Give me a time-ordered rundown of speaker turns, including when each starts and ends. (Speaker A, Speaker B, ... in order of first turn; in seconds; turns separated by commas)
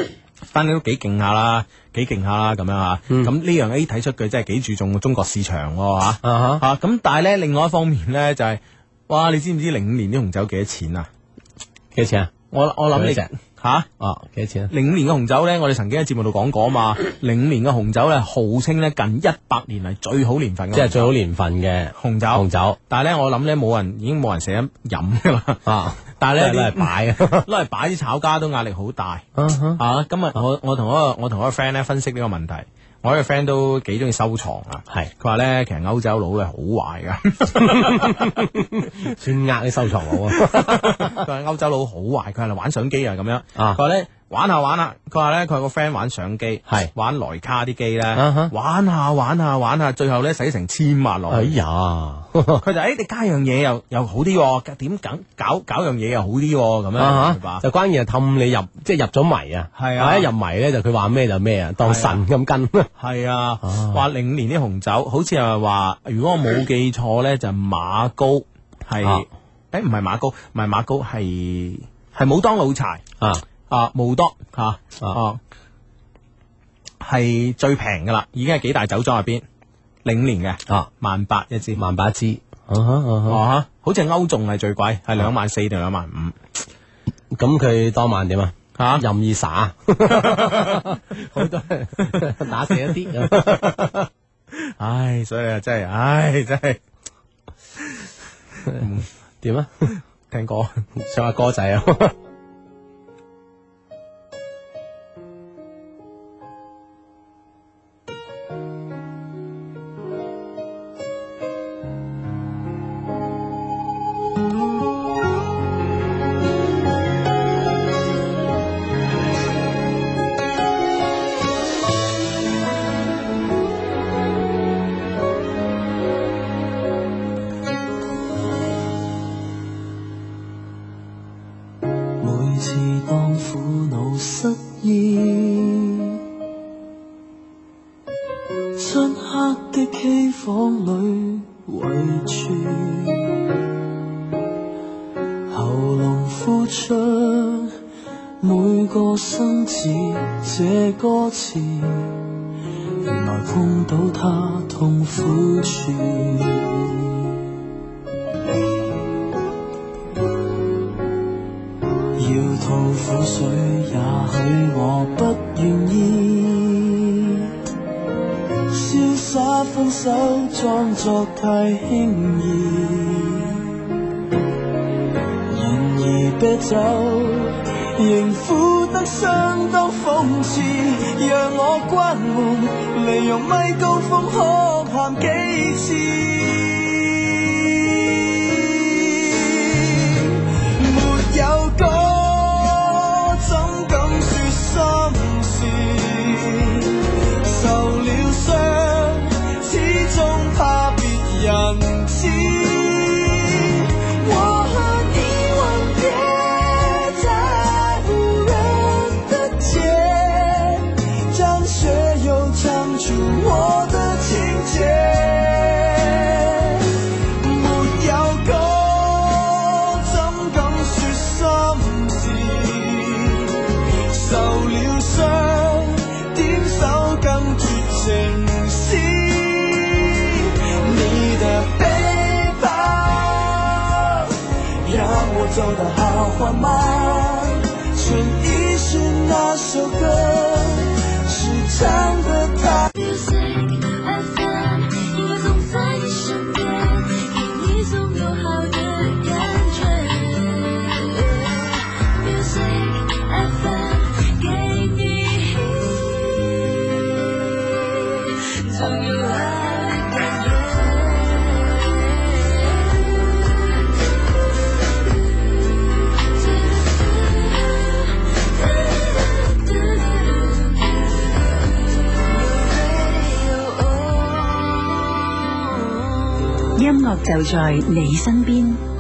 Speaker A: 0.5-11.1, Speaker B: 6.2-6.6, Speaker B: 11.9-12.3, Speaker A: 12.5-13.9, Speaker B: 12.9-13.3, Speaker B: 14.0-14.7, Speaker A: 14.7-21.1, Speaker B: 20.7-22.8, Speaker A: 22.0-25.6, Speaker B: 25.7-27.5, Speaker A: 26.2-29.3, Speaker B: 29.4-29.8, Speaker A: 29.8-38.5, Speaker B: 37.6-41.2, Speaker A: 40.3-51.6, Speaker B: 48.1-48.5, Speaker B: 51.3-52.6, Speaker A: 52.6-57.6, Speaker B: 57.0-62.9, Speaker A: 59.8-60.3, Speaker A: 61.8-62.2, Speaker A: 63.0-73.0, Speaker B: 63.6-64.0, Speaker A: 73.7-75.4, Speaker A: 77.0-79.4, Speaker A: 80.0-81.8, Speaker B: 81.8-83.4, Speaker A: 83.3-86.4, Speaker B: 87.3-94.1, Speaker A: 88.8-89.0, Speaker A: 90.0-91.0, Speaker A: 92.0-92.3, Speaker A: 94.6-96.8, Speaker A: 98.7-99.1, Speaker B: 99.4-99.9, Speaker A: 100.3-100.8, Speaker B: 100.9-102.2, Speaker C: 132.2-136.2, Speaker C: 138.8-143.4, Speaker C: 145.5-147.8, Speaker C: 148.4-152.2, Speaker C: 153.0-157.2, Speaker C: 162.2-167.5, Speaker C: 168.7-173.8, Speaker C: 175.5-242.9, Speaker D: 242.9-256.9, Speaker D: 258.4-263.6, Speaker D: 266.2-275.0, Speaker E: 276.8-278.8